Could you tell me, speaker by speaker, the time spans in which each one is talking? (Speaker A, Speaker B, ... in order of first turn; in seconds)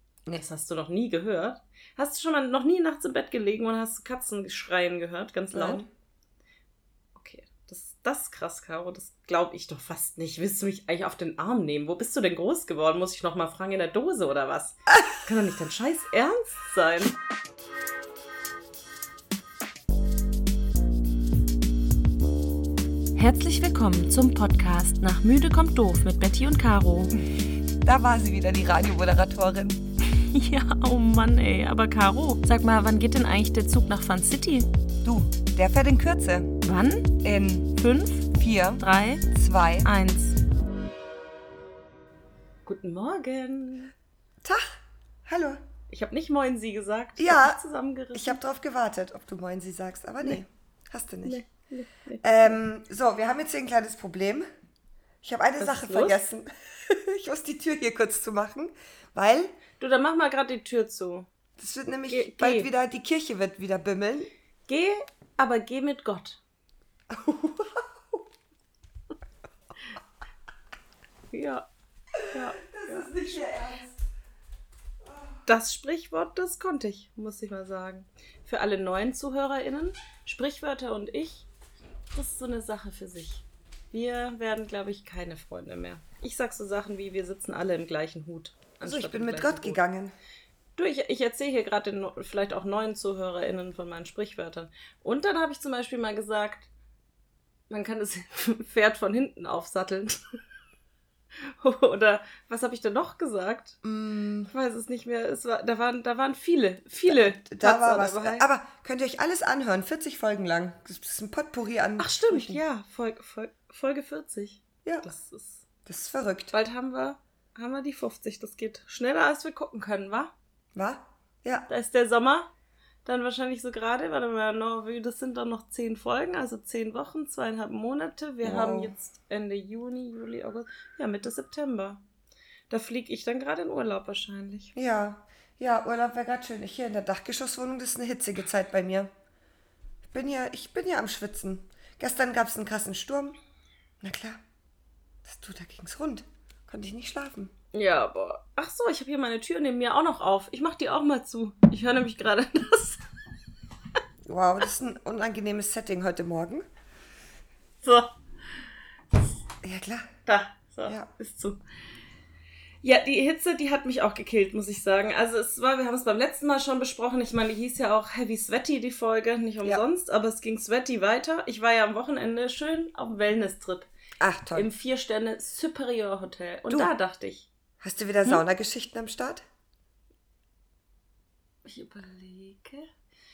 Speaker A: 0.3-5.8, 7.1-17.1, 23.1-27.1, 30.1-34.7, 36.6-37.2, 37.8-39.2, 39.8-40.4, 42.6-43.9, 45.9-48.4, 51.2-52.5, 55.6-56.2, 59.8-61.3, 62.1-62.7, 64.7-66.4, 71.3-71.7, 72.3-73.1, 75.5-81.5, 82.1-89.8, 90.8-96.7, 97.7-100.2, 101.4-103.8, 104.5-108.4, 112.0-115.6, 116.5-120.3, 121.7-122.5, 123.0-132.0, 132.7-134.7, 147.7-153.0, 157.8-158.1, 160.2-161.6, 162.8-173.9, 174.5-177.5, 181.6-182.9
Speaker B: 5.5-5.9, 27.8-29.8, 35.0-36.5, 37.2-39.9, 44.4-45.6, 47.2-47.6, 48.1-51.4, 52.2-54.4, 55.2-59.5, 61.6-64.3, 67.1-68.2, 72.6-74.0, 88.8-90.2, 103.8-104.5, 107.0-112.6, 115.8-116.5, 120.7-121.7, 128.4-128.9, 134.7-139.1, 140.1-143.4, 144.0-144.4, 145.2-147.5, 154.2-156.7, 159.6-160.1, 174.2-174.7, 177.8-179.4